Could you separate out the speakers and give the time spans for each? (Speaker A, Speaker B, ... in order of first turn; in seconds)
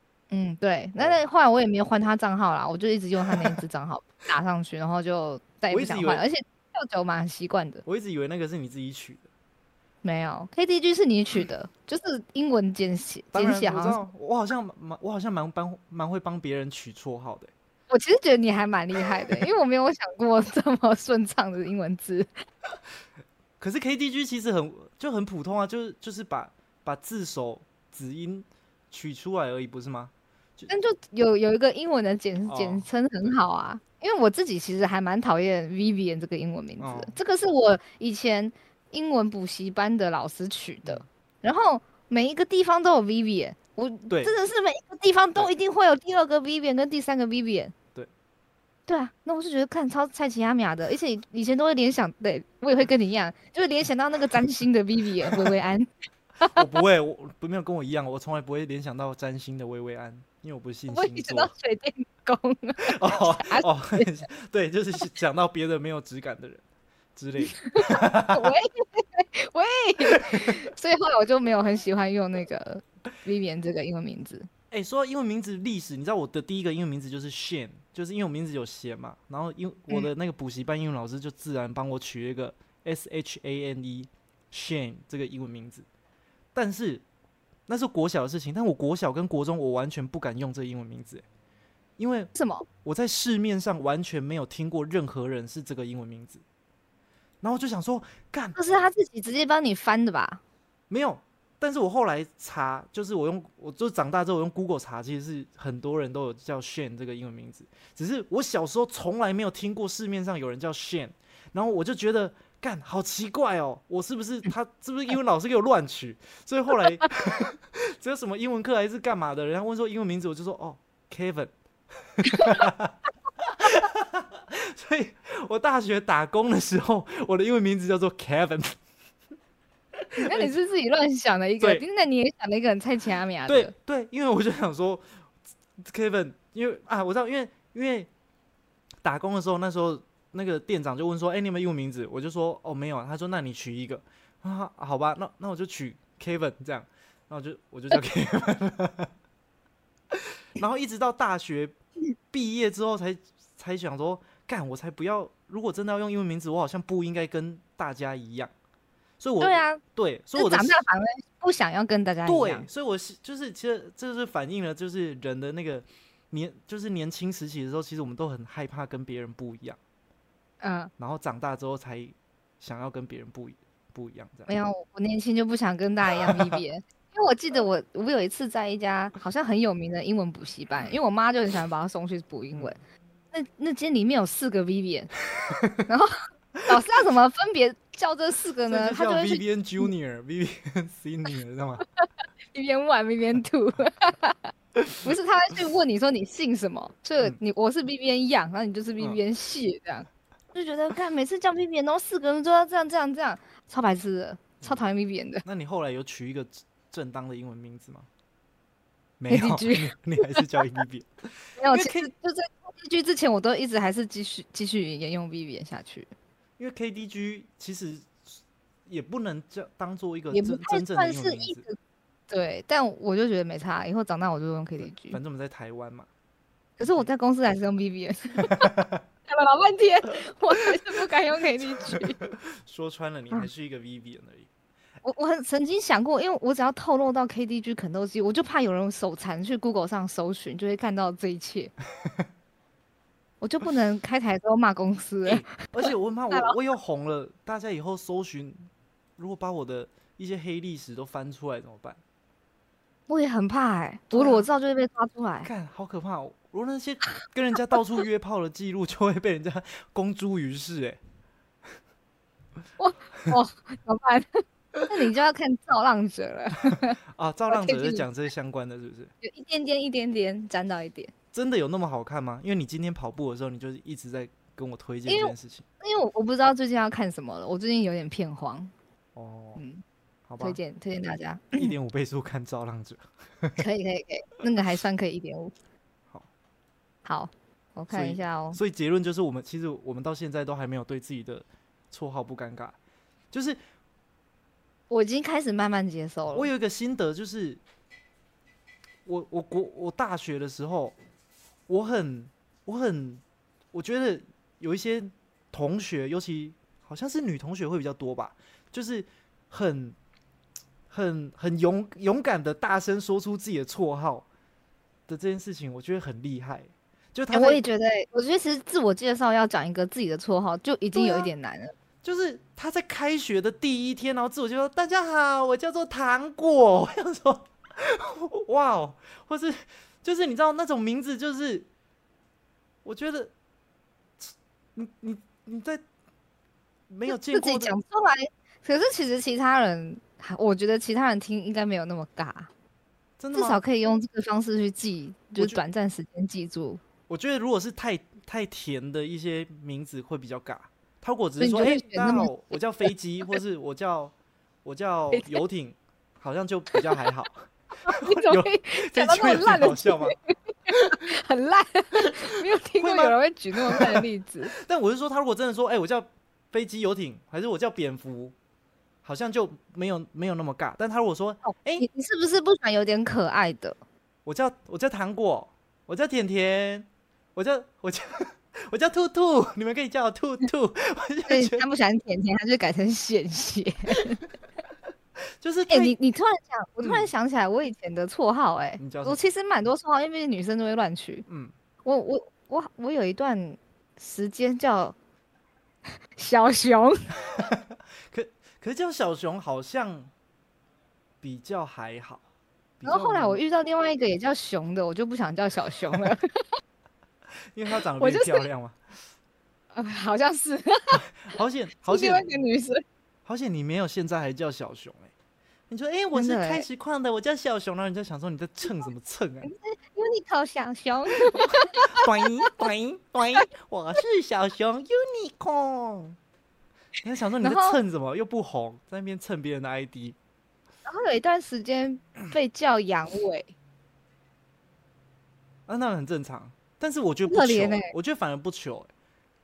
Speaker A: 0.3-7.8, 10.0-14.0, 17.9-22.3, 30.7-47.7, 48.9-55.9, 60.9-64.1, 67.4-74.5, 92.3-92.7, 98.5-100.4, 122.2-122.6, 130.2-133.7, 159.4-159.8, 160.3-162.7, 170.6-170.9, 174.5-182.8, 183.3-185.1, 185.8-186.1, 186.7-189.4, 192.0-205.4, 209.3-210.6, 211.6-216.1, 220.3-221.8, 222.3-225.2, 226.8-228.7, 229.3-232.2, 235.0-241.7, 243.4-246.6, 253.1-255.5, 262.8-267.0, 267.5-268.0, 269.2-271.1, 275.1-278.7, 279.6-279.8, 280.4-281.7, 283.6-285.5, 287.0-288.6, 294.9-296.5, 317.3-321.7, 337.1-342.5, 343.3-346.8, 351.4-352.3, 355.1-355.4, 357.8-364.5, 371.4-373.8, 381.3-384.2, 385.7-391.2, 391.8-394.9, 396.1-397.2, 402.8-406.4, 408.0-408.5, 409.7-411.0, 411.9-412.8, 416.1-416.7, 419.4-422.1, 427.4-427.8, 430.9-433.5, 437.3-437.9
Speaker B: 3.3-3.5, 5.7-6.2, 7.8-9.2, 13.3-17.5, 23.6-30.7, 32.5-32.8, 36.8-37.1, 44.1-44.3, 55.2-55.6, 56.5-61.5, 62.8-66.6, 67.1-68.5, 70.1-70.5, 74.7-85.8, 86.5-87.0, 87.7-91.2, 92.0-92.3, 92.8-96.4, 97.4-98.6, 100.9-128.8, 130.0-130.5, 131.6-131.8, 133.4-135.1, 135.8-138.1, 139.0-149.1, 150.1-151.7, 152.3-158.5, 159.2-160.8, 162.2-169.8, 171.0-174.5, 176.2-176.6, 185.5-185.8, 188.7-191.8, 205.4-208.1, 209.2-212.1, 216.6-221.6, 224.8-226.1, 226.8-227.1, 228.5-229.0, 231.9-234.5, 242.0-242.3, 245.2-248.6, 249.2-252.0, 254.1-254.5, 255.4-261.0, 267.1-269.1, 271.3-275.6, 279.1-279.6, 280.3-280.6, 281.6-283.6, 287.9-292.8, 293.3-293.6, 296.3-297.6, 299.1-300.9, 301.7-309.9, 310.9-314.2, 315.1-317.6, 320.9-321.3, 322.0-331.7, 332.8-333.3, 334.2-335.8, 336.9-337.7, 343.2-343.6, 347.1-360.1, 362.7-368.3, 369.0-371.9, 374.2-381.6, 385.4-385.9, 386.8-387.1, 388.8-389.2, 391.3-391.5, 397.3-400.1, 401.2-402.2, 402.8-403.4, 407.5-408.8, 410.9-412.2, 413.2-415.1, 415.7-419.5, 421.2-426.1, 427.0-430.1, 435.7-438.9